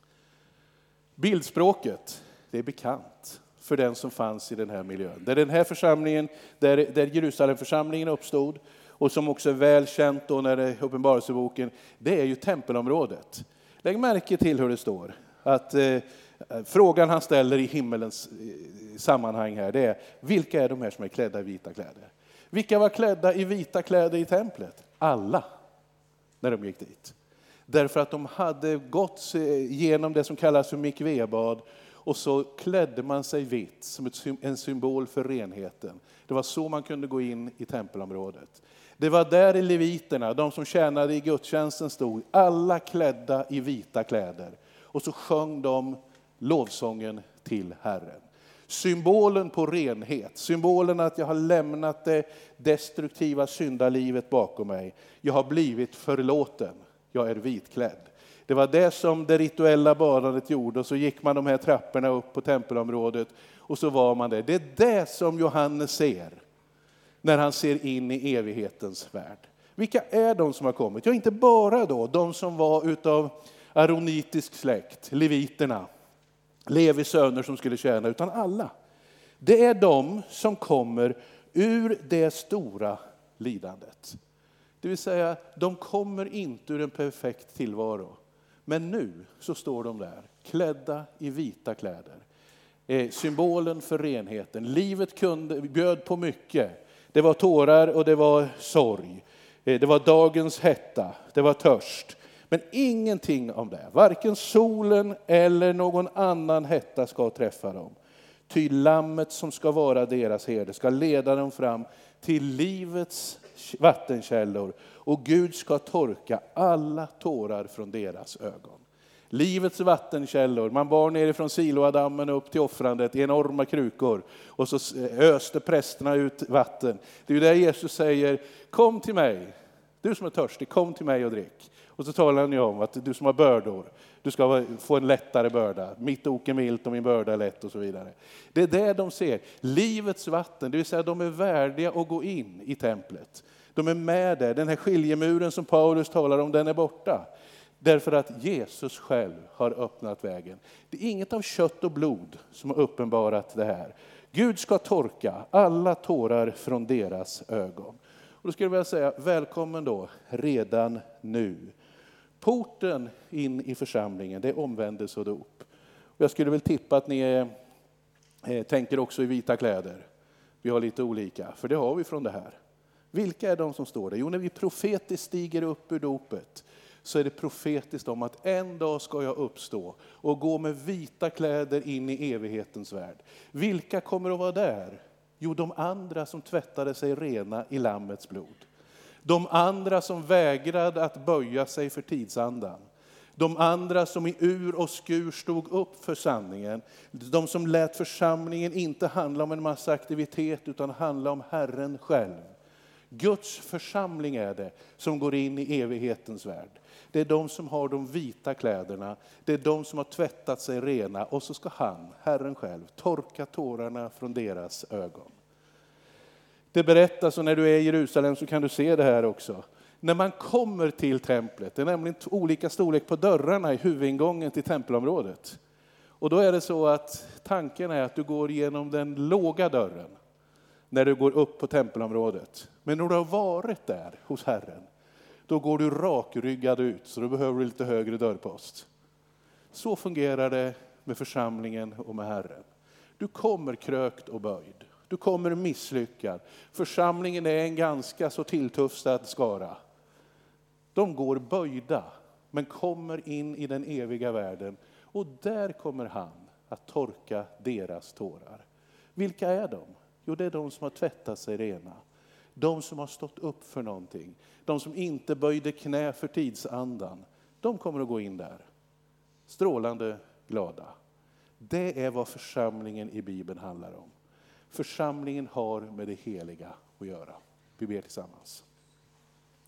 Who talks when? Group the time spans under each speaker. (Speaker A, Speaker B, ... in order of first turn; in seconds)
Speaker A: 1.2-25.5, 26.4-27.1, 27.7-66.4, 67.2-75.9, 76.7-78.7, 79.4-84.2, 84.8-92.2, 92.9-108.0, 108.5-147.3, 147.8-161.7, 162.4-167.5, 168.4-170.1, 170.6-172.6, 173.1-188.7, 189.2-192.8, 193.4-202.5, 203.1-215.3, 216.7-225.6, 226.2-230.2, 230.9-234.9, 235.5-238.9, 239.7-242.7, 243.2-249.8, 250.9-262.0, 262.6-268.7, 269.5-270.9, 271.6-274.1, 274.7-278.6